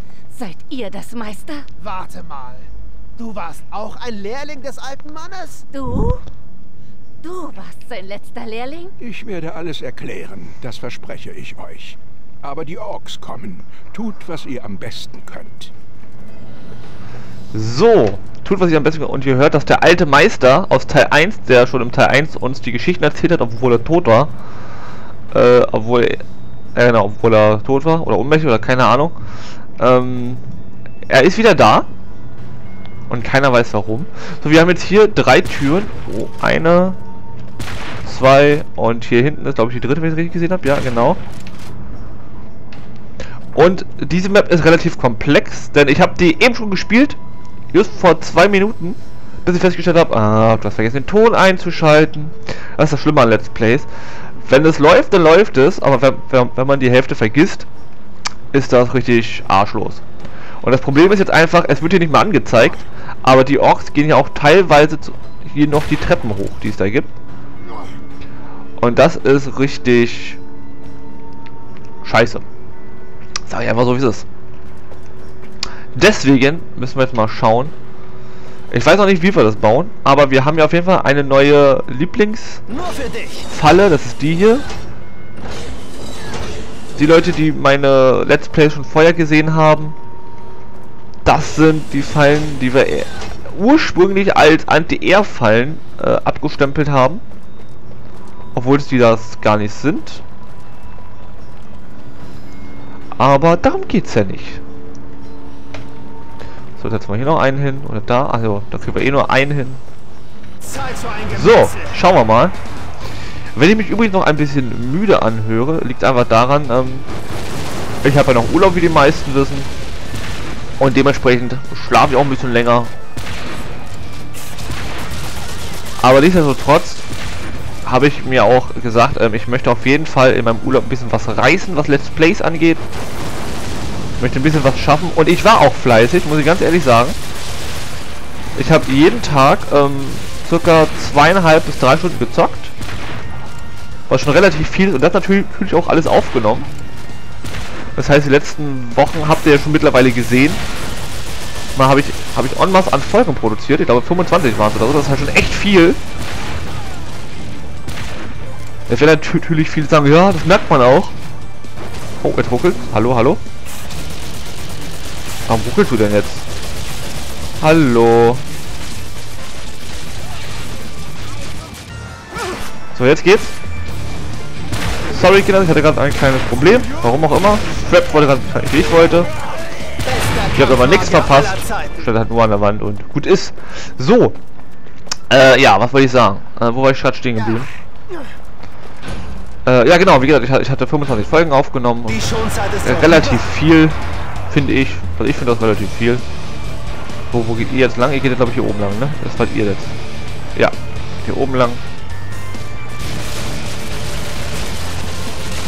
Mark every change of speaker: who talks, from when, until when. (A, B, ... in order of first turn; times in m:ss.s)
0:00.3-0:01.7 A
0:01.8-0:02.7 B
0:03.2-0:05.6 B
0:05.7-0:06.2 A
0:07.2-0:08.9 A
0:09.0-0:15.7 C
0:17.5-0:24.3 D
0:25.3-0:26.2 D
0:26.8-0:29.2 D
0:29.8-0:30.4 D
0:31.1-0:31.9 D
0:33.1-0:37.0 D
0:38.0-0:41.2 D
0:43.5-0:47.2 D
0:47.7-0:57.7 D
0:58.5-1:00.0 D
1:00.6-1:07.1 D
1:08.8-1:10.4 D
1:12.0-1:12.4 D
1:13.5-1:14.2 D
1:15.9-1:17.7 D
1:18.7-1:22.6 D
1:22.7-1:23.5 B
1:23.5-1:24.7 D
1:27.0-1:30.0 D
1:31.2-1:37.2 D
1:38.6-1:40.2 D
1:43.2-1:44.6 D
1:46.8-1:49.8 D
1:50.6-1:52.0 B
1:51.3-1:52.6 D
1:53.6-1:57.1 D
1:58.0-1:59.7 D
2:00.8-2:02.9 D
2:06.0-2:07.1 D
2:07.8-2:12.8 D
2:14.2-2:17.2 D
2:18.6-2:22.7 D
2:24.1-2:26.7 D
2:28.0-2:30.6 D
2:31.8-2:36.0 D
2:38.9-2:41.2 D
2:42.2-2:43.4 D
2:45.5-2:46.5 D
2:47.6-2:48.4 D
2:52.9-2:53.6 D
2:55.1-2:59.3 D
3:00.0-3:02.0 B
3:00.6-3:04.4 D
3:05.3-3:07.7 D
3:09.7-3:12.2 D
3:12.1-3:13.4 B
3:12.8-3:16.2 D
3:17.3-3:20.0 D
3:20.6-3:21.8 D